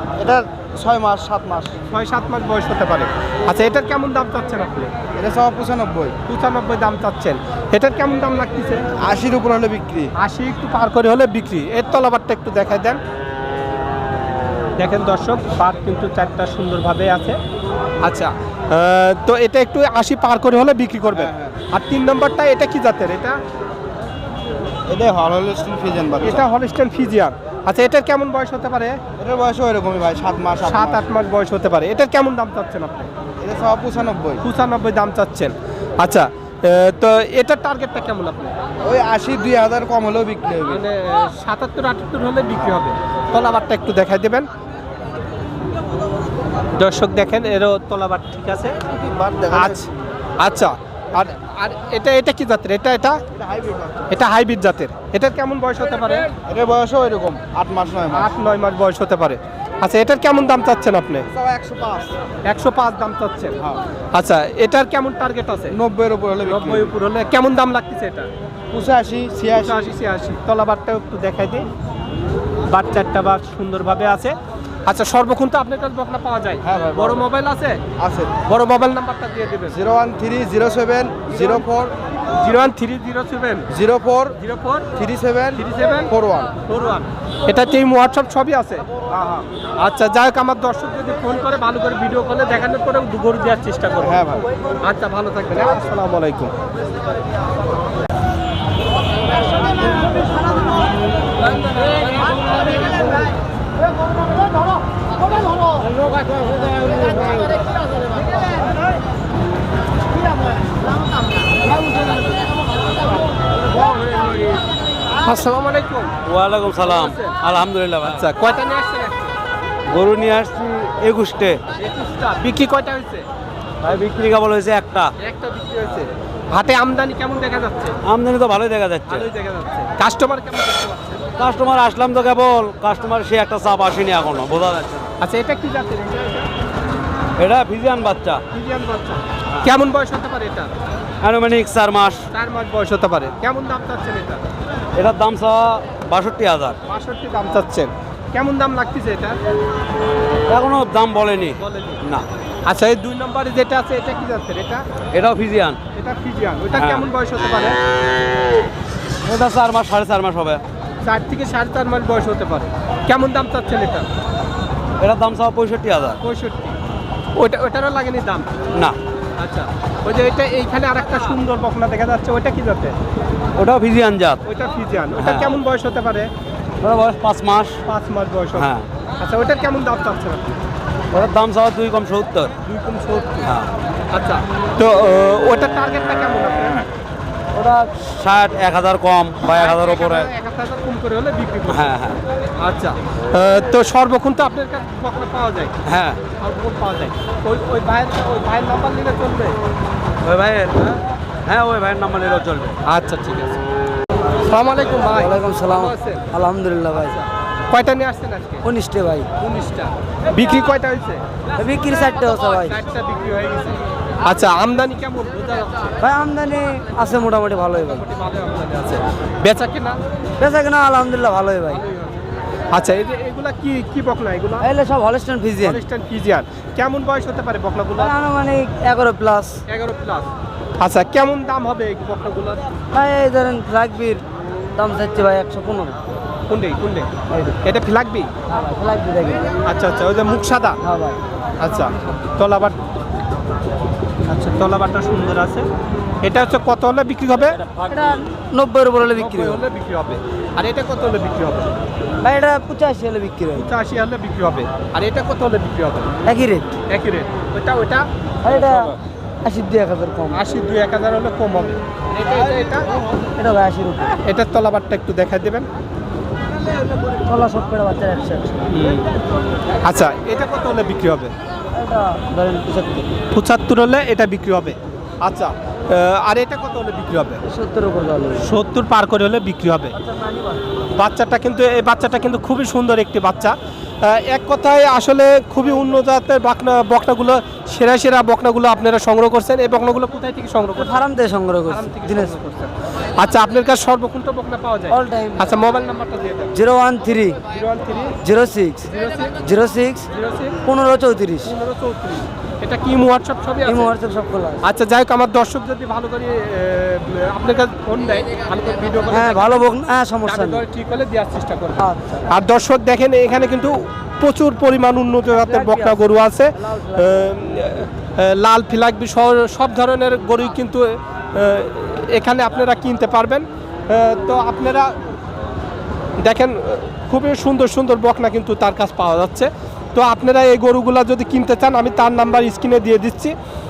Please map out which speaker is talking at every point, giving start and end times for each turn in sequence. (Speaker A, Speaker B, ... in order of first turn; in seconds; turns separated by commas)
Speaker A: 0.2-1.8, Speaker B: 1.9-4.9, Speaker A: 5.2-6.2, Speaker B: 6.3-8.9, Speaker A: 9.0-10.1, Speaker B: 10.2-13.0, Speaker B: 14.8-17.4, Speaker B: 18.0-23.4, Speaker A: 21.1-21.6, Speaker A: 24.9-26.5, Speaker B: 26.2-29.0, Speaker A: 29.2-31.0, Speaker B: 30.6-33.1, Speaker A: 33.4-34.4, Speaker B: 34.4-38.6, Speaker A: 38.8-40.8, Speaker B: 40.7-44.5, Speaker B: 46.8-48.8, Speaker A: 48.9-49.9, Speaker B: 49.5-49.9, Speaker B: 50.4-53.2, Speaker A: 53.4-54.1, Speaker B: 54.1-56.3, Speaker A: 56.5-58.3, Speaker B: 58.1-61.3, Speaker A: 61.3-62.1, Speaker B: 62.5-63.6, Speaker B: 64.1-65.8, Speaker A: 65.7-67.0, Speaker B: 66.4-68.3, Speaker A: 68.7-69.9, Speaker B: 69.6-71.7, Speaker B: 72.7-77.8, Speaker A: 76.6-77.2, Speaker A: 78.0-78.4, Speaker B: 78.5-79.8, Speaker A: 79.7-81.9, Speaker B: 81.3-81.7, Speaker B: 82.4-83.7, Speaker A: 83.7-84.4, Speaker B: 84.4-84.9, Speaker A: 85.0-86.6, Speaker B: 85.5-86.1, Speaker B: 86.7-88.9, Speaker A: 89.1-89.5, Speaker B: 89.8-94.2, Speaker A: 94.0-94.5, Speaker B: 94.8-96.5, Speaker B: 115.2-116.1, Speaker C: 116.2-118.3, Speaker B: 116.7-117.4, Speaker B: 118.0-119.3, Speaker C: 119.9-121.6, Speaker B: 121.8-123.3, Speaker C: 123.8-125.1, Speaker B: 125.2-128.0, Speaker C: 128.1-129.3, Speaker B: 129.1-131.2, Speaker C: 131.4-135.1, Speaker B: 135.2-136.5, Speaker C: 137.4-138.4, Speaker B: 138.5-140.7, Speaker C: 141.2-142.2, Speaker B: 142.3-144.4, Speaker C: 144.9-146.8, Speaker B: 146.9-149.4, Speaker C: 150.5-152.2, Speaker B: 151.6-152.0, Speaker B: 152.7-154.8, Speaker C: 155.1-155.8, Speaker B: 155.9-157.8, Speaker C: 156.8-157.1, Speaker C: 159.2-160.6, Speaker B: 161.0-164.1, Speaker C: 165.0-166.2, Speaker B: 166.2-166.8, Speaker B: 167.4-168.5, Speaker B: 169.4-173.0, Speaker C: 173.6-174.4, Speaker B: 174.4-176.3, Speaker C: 175.2-175.6, Speaker C: 176.8-177.8, Speaker B: 177.9-180.6, Speaker C: 178.6-178.9, Speaker C: 181.1-182.5, Speaker B: 182.7-183.5, Speaker C: 183.4-183.7, Speaker B: 184.1-186.9, Speaker D: 187.6-187.9, Speaker C: 188.0-190.3, Speaker B: 189.5-191.9, Speaker C: 191.7-192.2, Speaker B: 192.6-195.7, Speaker C: 195.8-196.2, Speaker B: 196.4-199.6, Speaker C: 200.2-202.8, Speaker B: 202.8-203.6, Speaker B: 204.5-206.2, Speaker D: 205.1-207.2, Speaker B: 207.0-208.6, Speaker D: 208.6-209.3, Speaker B: 209.4-211.2, Speaker D: 211.6-212.8, Speaker B: 212.6-215.9, Speaker D: 216.0-218.1, Speaker B: 217.8-220.0, Speaker D: 220.4-221.8, Speaker B: 221.7-222.2, Speaker B: 222.7-224.7, Speaker D: 224.6-225.8, Speaker B: 225.6-228.1, Speaker D: 228.0-229.6, Speaker B: 229.7-230.3, Speaker B: 230.8-232.6, Speaker D: 232.9-236.0, Speaker B: 236.5-237.1, Speaker B: 237.6-238.3, Speaker D: 238.5-239.5, Speaker B: 239.6-240.8, Speaker D: 240.8-241.2, Speaker B: 241.6-242.8, Speaker B: 244.3-245.7, Speaker B: 246.2-247.7, Speaker D: 247.9-249.6, Speaker B: 249.1-251.8, Speaker D: 252.2-253.7, Speaker B: 253.5-256.1, Speaker D: 256.2-256.8, Speaker B: 256.9-258.9, Speaker D: 258.4-260.6, Speaker B: 260.3-262.9, Speaker D: 263.4-264.2, Speaker B: 264.2-265.7, Speaker D: 267.2-268.7, Speaker B: 268.7-269.1, Speaker B: 269.8-271.3, Speaker D: 271.7-273.1, Speaker B: 273.3-277.4, Speaker D: 277.5-278.5, Speaker B: 278.4-279.9, Speaker D: 280.0-280.6, Speaker B: 280.9-291.1, Speaker D: 290.8-292.4, Speaker B: 291.7-296.6, Speaker D: 294.9-295.6, Speaker D: 296.5-297.4, Speaker B: 297.4-298.2, Speaker D: 298.2-298.9, Speaker B: 298.9-299.4, Speaker D: 299.4-300.1, Speaker B: 300.1-300.6, Speaker D: 300.6-301.5, Speaker B: 301.4-303.9, Speaker D: 303.6-304.6, Speaker B: 304.6-309.7, Speaker D: 309.1-310.6, Speaker B: 310.3-324.9, Speaker D: 311.8-312.2, Speaker D: 315.3-317.4, Speaker B: 326.2-333.3